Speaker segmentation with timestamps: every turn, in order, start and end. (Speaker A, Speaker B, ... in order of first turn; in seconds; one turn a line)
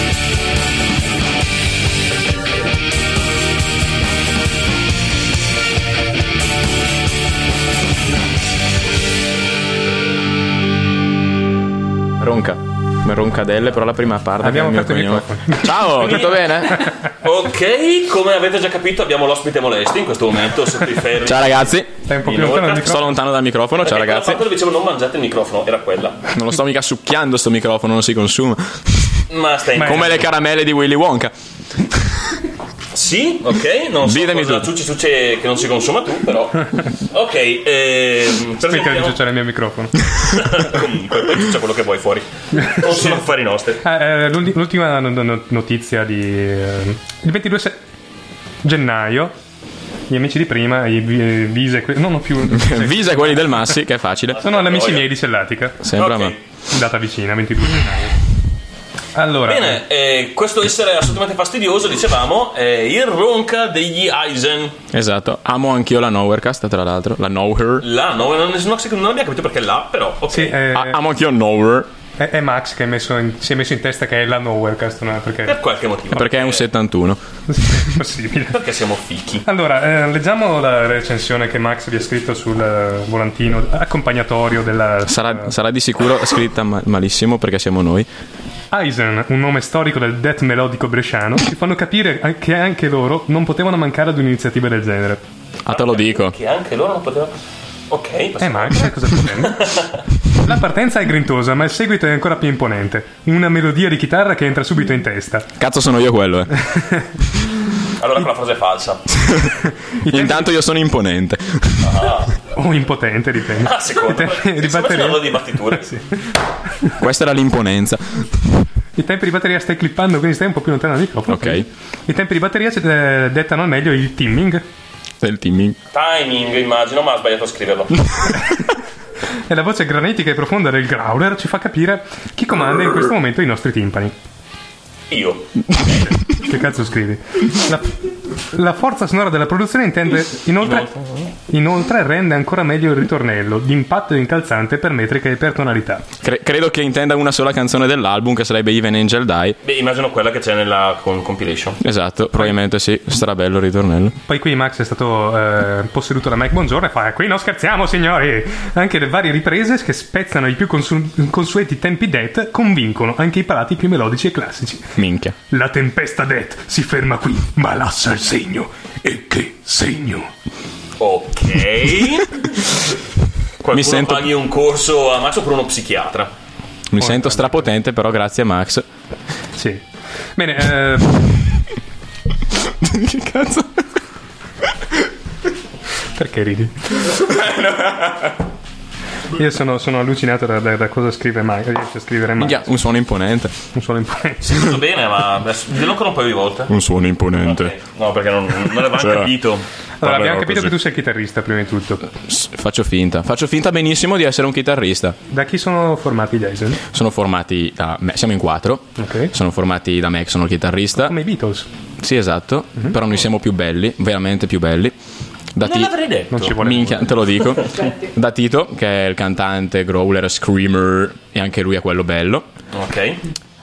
Speaker A: 12.2-16.9
Speaker B: 14.4-16.3
Speaker C: 17.2-21.7
Speaker A: 21.2-21.9
Speaker B: 22.1-23.1
Speaker C: 22.2-23.0
Speaker A: 22.8-24.4
Speaker C: 23.8-26.2
Speaker A: 26.3-29.0
Speaker C: 29.3-30.2
Speaker A: 29.8-31.3
Speaker C: 32.9-39.2
Speaker A: 34.0-34.7
Speaker B: 38.6-40.1
Speaker C: 40.3-43.8
Speaker B: 42.6-43.2
Speaker B: 43.8-47.8
Speaker B: 48.6-49.3
Speaker B: 50.1-53.7
Speaker A: 52.5-54.4
Speaker C: 54.3-55.1
Speaker B: 54.4-55.9
Speaker A: 55.8-56.4
Speaker C: 55.9-56.4
Speaker B: 56.7-58.2
Speaker B: 59.1-59.8
Speaker C: 59.5-64.8
Speaker A: 64.9-67.8
Speaker C: 67.8-70.6
Speaker B: 70.3-71.0
Speaker A: 70.7-71.9
Speaker B: 72.2-75.6
Speaker C: 75.5-76.6
Speaker A: 76.1-77.2
Speaker B: 77.5-78.6
Speaker C: 78.5-79.4
Speaker B: 79.5-85.5
Speaker A: 85.1-88.1
Speaker B: 88.7-95.2
Speaker A: 95.7-96.3
Speaker C: 95.7-97.3
Speaker C: 97.9-100.0
Speaker B: 98.4-99.7
Speaker B: 100.4-105.5
Speaker A: 105.6-106.7
Speaker C: 108.0-109.0
Speaker B: 110.0-110.5
Speaker A: 110.1-111.9
Speaker C: 111.8-112.3
Speaker B: 112.5-116.0
Speaker C: 113.6-116.0
Speaker A: 117.0-118.3
Speaker B: 119.0-124.7
Speaker A: 121.3-121.7
Speaker A: 125.2-125.8
Speaker C: 125.9-128.0
Speaker B: 129.5-134.1
Speaker C: 135.1-136.2
Speaker B: 136.4-138.0
Speaker B: 138.5-140.9
Speaker C: 140.6-141.2
Speaker B: 141.5-146.1
Speaker A: 146.2-149.6
Speaker C: 149.6-151.8
Speaker A: 151.8-154.2
Speaker B: 154.3-164.9
Speaker A: 165.0-165.3
Speaker B: 165.5-170.3
Speaker C: 171.0-172.3
Speaker C: 173.6-176.3
Speaker A: 173.7-174.3
Speaker A: 176.9-178.9
Speaker B: 177.0-177.7
Speaker B: 179.6-179.8
Speaker B: 180.4-181.2
Speaker A: 182.8-183.9
Speaker B: 186.2-187.1
Speaker B: 189.3-192.7
Speaker A: 192.4-193.5
Speaker B: 193.8-194.4
Speaker C: 194.4-196.7
Speaker A: 196.7-197.7
Speaker C: 197.4-200.3
Speaker A: 198.9-199.3
Speaker B: 200.0-202.1
Speaker A: 200.1-200.6
Speaker A: 202.2-205.2
Speaker B: 205.3-206.8
Speaker A: 206.9-211.2
Speaker B: 209.0-209.3
Speaker B: 211.0-211.7
Speaker A: 212.0-215.0
Speaker A: 215.6-215.9
Speaker C: 215.6-216.6
Speaker B: 216.3-217.1
Speaker A: 216.5-222.5
Speaker C: 222.7-223.2